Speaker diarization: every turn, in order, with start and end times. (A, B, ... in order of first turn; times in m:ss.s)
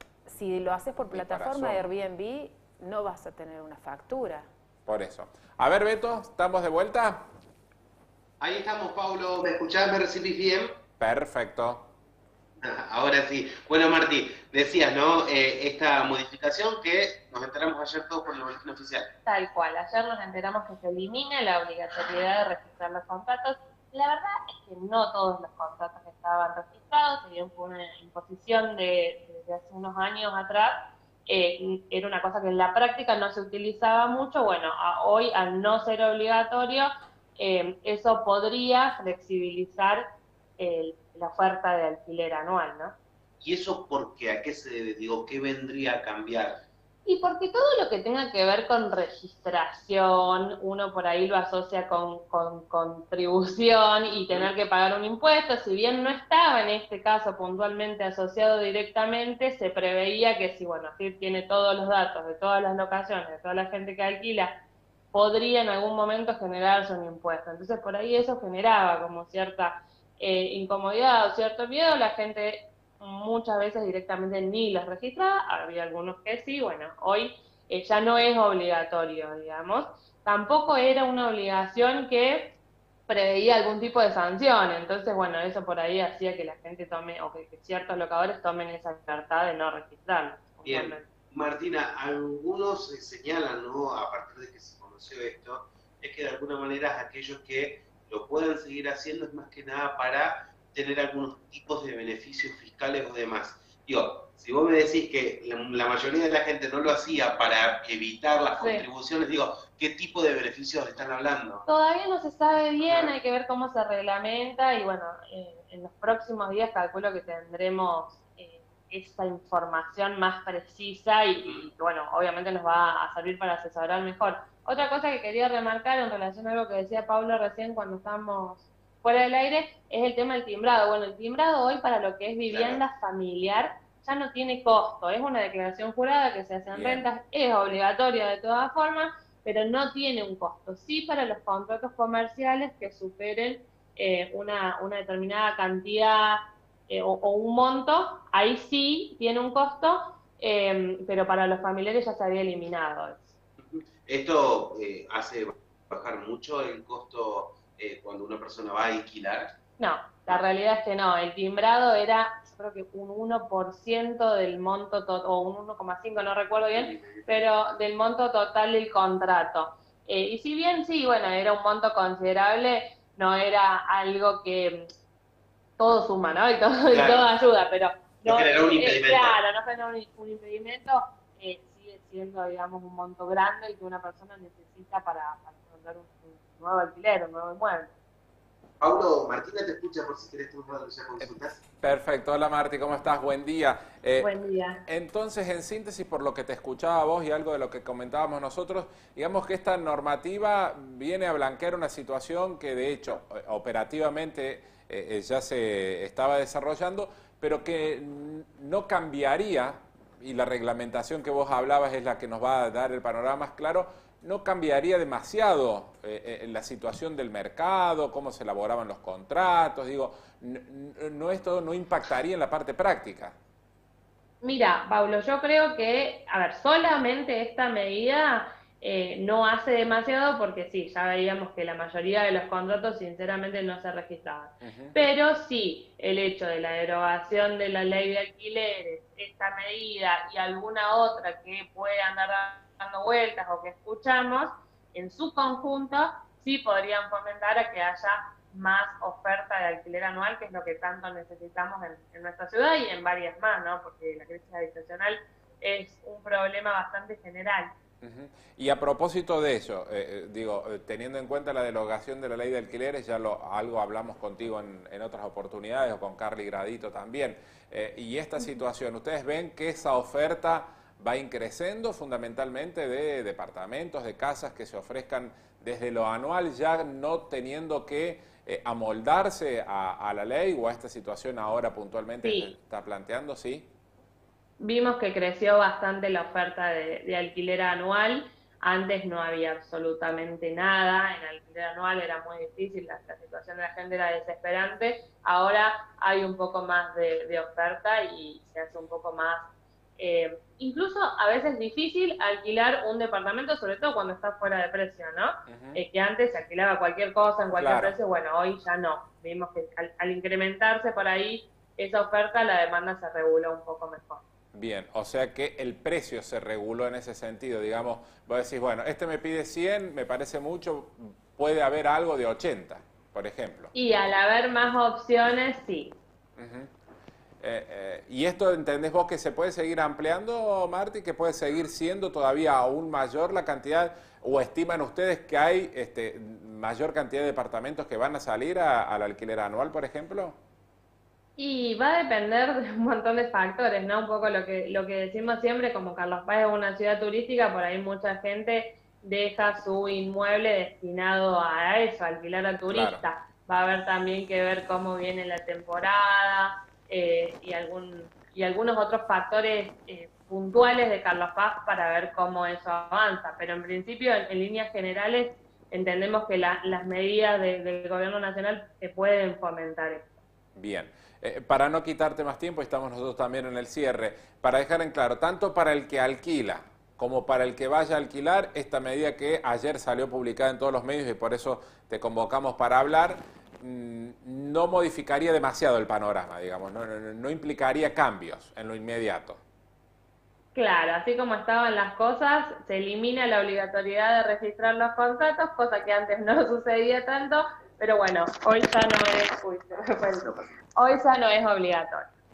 0:00.2-0:04.5 A
0:01.0-0:01.8 B
0:04.8-0:07.2 B
0:08.4-0:10.7 C
0:11.0-0:11.9 B
0:12.6-0:19.1 C
0:19.2-0:40.0 D
0:40.6-0:43.0 D
0:43.4-0:46.6 C
0:47.0-1:04.6 D
1:05.1-1:22.6 D
1:23.1-1:31.1 D
1:30.6-1:51.6 C
1:48.6-1:48.8 D
1:51.6-2:33.3 D
1:52.8-1:53.1 C
2:01.4-2:01.7 C
2:12.5-2:12.8 C
2:16.7-2:17.0 B
2:33.7-2:39.5 C
2:39.8-2:54.9 D
2:46.7-2:47.4 C
2:55.8-3:07.9 D
2:56.9-2:57.2 C
2:58.2-2:59.4 C
3:08.8-3:11.6 C
3:11.2-3:14.3 B
3:14.2-3:14.8 D
3:14.8-3:43.4 B
3:44.4-4:17.7 D
3:54.6-3:55.0 B
4:18.0-4:43.7 B
4:42.2-4:42.5 D
4:44.6-5:14.2 D
5:05.5-5:05.8 B
5:07.6-5:08.0 B
5:14.5-5:23.7 B
5:23.7-5:26.0 D
5:26.4-5:26.7 B
5:27.4-5:40.4 B
5:41.4-6:10.1 D
5:52.7-5:53.1 B
6:10.6-6:29.4 B
6:30.5-6:42.0 D